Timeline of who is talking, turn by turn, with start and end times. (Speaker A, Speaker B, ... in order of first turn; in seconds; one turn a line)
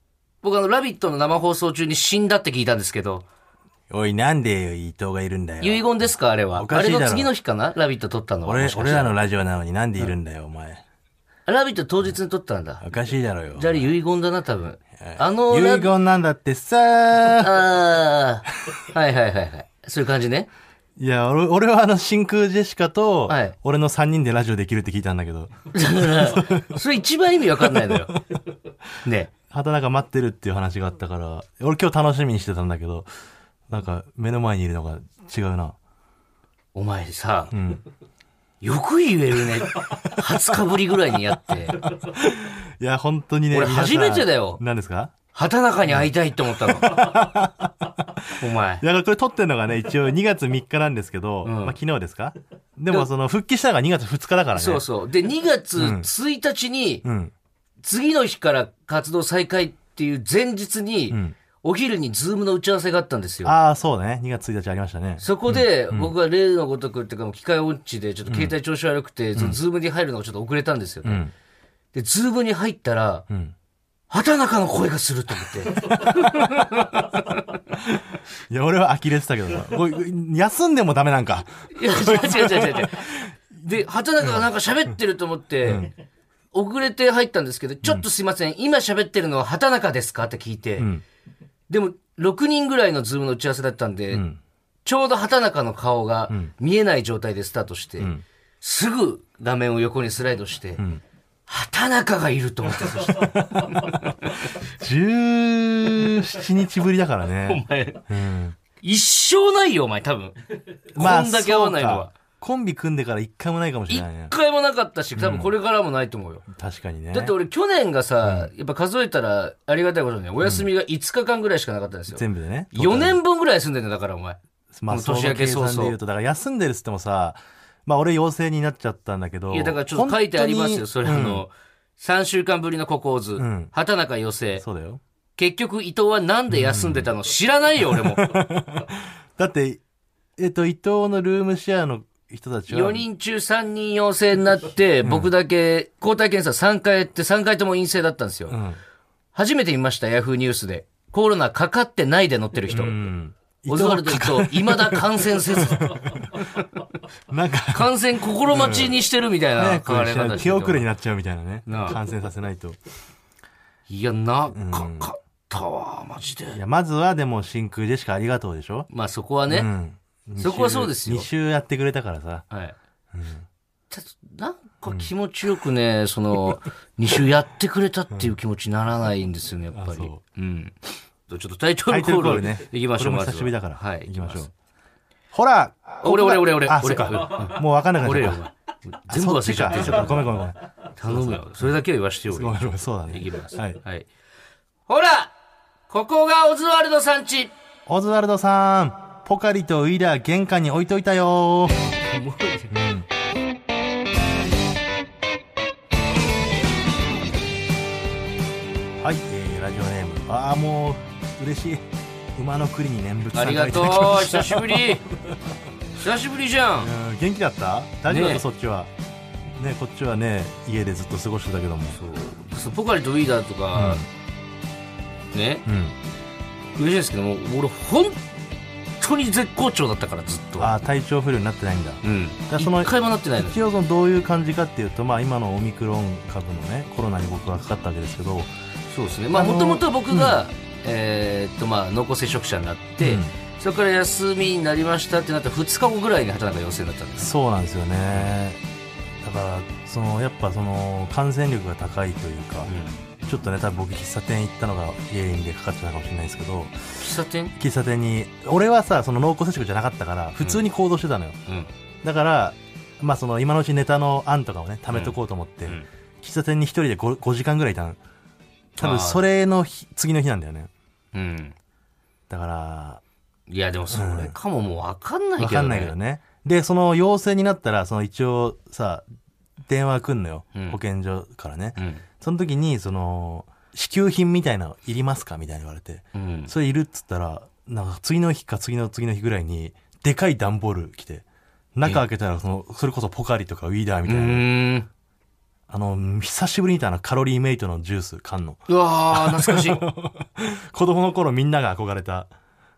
Speaker A: 0.4-3.2
Speaker B: 3.9-7.3
Speaker A: 5.6-9.2
Speaker B: 8.4-10.8
Speaker A: 11.5-12.9
Speaker B: 12.8-13.9
Speaker A: 13.6-15.9
Speaker B: 15.0-17.6
Speaker A: 17.4-20.5
Speaker B: 21.0-26.8
Speaker A: 23.3-23.6
Speaker A: 25.7-28.2
Speaker B: 27.6-28.1
Speaker A: 29.0-29.3
Speaker B: 29.5-33.1
Speaker B: 33.7-35.8
Speaker A: 36.8-37.5
Speaker B: 37.5-37.8
Speaker A: 38.6-41.9
Speaker B: 41.7-45.1
Speaker A: 43.5-44.6
Speaker A: 45.3-47.0
Speaker B: 45.9-54.9
Speaker A: 48.4-48.8
Speaker A: 51.4-51.8
Speaker A: 54.5-57.0
Speaker B: 55.8-56.1
Speaker B: 57.0-57.3
Speaker A: 57.8-63.6
Speaker B: 61.1-61.4
Speaker B: 63.4-66.1
Speaker A: 65.2-71.3
Speaker B: 68.3-68.5
Speaker B: 71.0-71.3
Speaker A: 71.9-73.2
Speaker B: 73.3-73.5
Speaker A: 74.1-77.6
Speaker B: 75.7-76.9
Speaker B: 78.5-83.2
Speaker A: 81.7-85.9
Speaker B: 84.2-84.5
Speaker B: 85.6-85.9
Speaker A: 86.5-90.9
Speaker B: 90.8-91.0
Speaker A: 91.7-94.2
Speaker B: 94.1-94.4
Speaker A: 94.8-100.8
Speaker B: 98.0-98.2
Speaker B: 100.8-101.0
Speaker A: 101.5-104.4
Speaker B: 102.8-108.6
Speaker A: 107.5-108.0
Speaker A: 108.8-110.4
Speaker A: 110.9-112.1
Speaker B: 111.0-114.3
Speaker A: 113.9-116.5
Speaker B: 115.2-115.5
Speaker B: 116.5-117.4
Speaker A: 117.1-126.0
Speaker B: 118.2-118.5
Speaker B: 120.4-120.7
Speaker B: 122.1-123.2
Speaker B: 124.7-131.5
Speaker A: 129.5-134.6
Speaker B: 133.4-133.7
Speaker B: 134.6-135.0
Speaker A: 135.4-138.4
Speaker B: 136.5-137.1
Speaker B: 137.8-139.8
Speaker B: 140.4-143.1
Speaker A: 142.7-148.6
Speaker B: 145.0-145.3
Speaker B: 148.5-148.8
Speaker A: 149.3-153.1
Speaker B: 152.7-156.6
Speaker A: 153.7-156.6
Speaker B: 157.3-162.8
Speaker A: 157.7-160.9
Speaker A: 161.7-162.0
Speaker A: 163.9-166.6
Speaker B: 164.5-165.1
Speaker B: 166.5-168.9
Speaker A: 168.9-169.7
Speaker B: 169.5-172.4
Speaker A: 170.4-171.3
Speaker B: 173.1-173.5
Speaker A: 173.9-184.5
Speaker B: 179.7-180.2
Speaker B: 181.9-184.5
Speaker B: 185.3-188.5
Speaker A: 186.0-190.3
Speaker B: 189.1-193.8
Speaker A: 190.9-194.1
Speaker A: 194.9-195.3
Speaker A: 195.9-197.5
Speaker B: 197.9-201.9
Speaker A: 202.0-202.7
Speaker B: 202.7-203.1
Speaker B: 209.0-215.0
Speaker A: 213.3-215.0
Speaker A: 216.0-216.9
Speaker B: 216.8-218.9
Speaker A: 218.1-218.4
Speaker B: 219.6-222.0
Speaker A: 221.9-224.0
Speaker B: 223.7-224.1
Speaker A: 225.3-225.7
Speaker B: 225.7-226.0
Speaker A: 226.8-228.2
Speaker A: 229.0-230.7
Speaker B: 230.6-238.5
Speaker A: 232.0-233.6
Speaker A: 238.9-247.3
Speaker B: 239.3-240.4
Speaker B: 243.0-243.3
Speaker B: 247.2-248.6
Speaker B: 249.2-252.7
Speaker A: 252.7-253.1
Speaker B: 253.2-256.8
Speaker A: 257.0-257.5
Speaker B: 257.6-261.4
Speaker A: 260.4-260.7
Speaker A: 261.5-261.7
Speaker B: 262.0-268.0
Speaker A: 264.9-265.9
Speaker B: 268.8-270.7
Speaker A: 268.8-269.2
Speaker A: 271.1-271.6
Speaker B: 272.3-273.0
Speaker A: 273.5-275.9
Speaker B: 273.9-274.4
Speaker B: 275.4-279.0
Speaker B: 279.7-294.5
Speaker A: 280.5-280.8
Speaker A: 281.8-282.0
Speaker A: 286.1-286.5
Speaker A: 294.1-294.9
Speaker B: 295.7-302.3
Speaker A: 298.7-299.8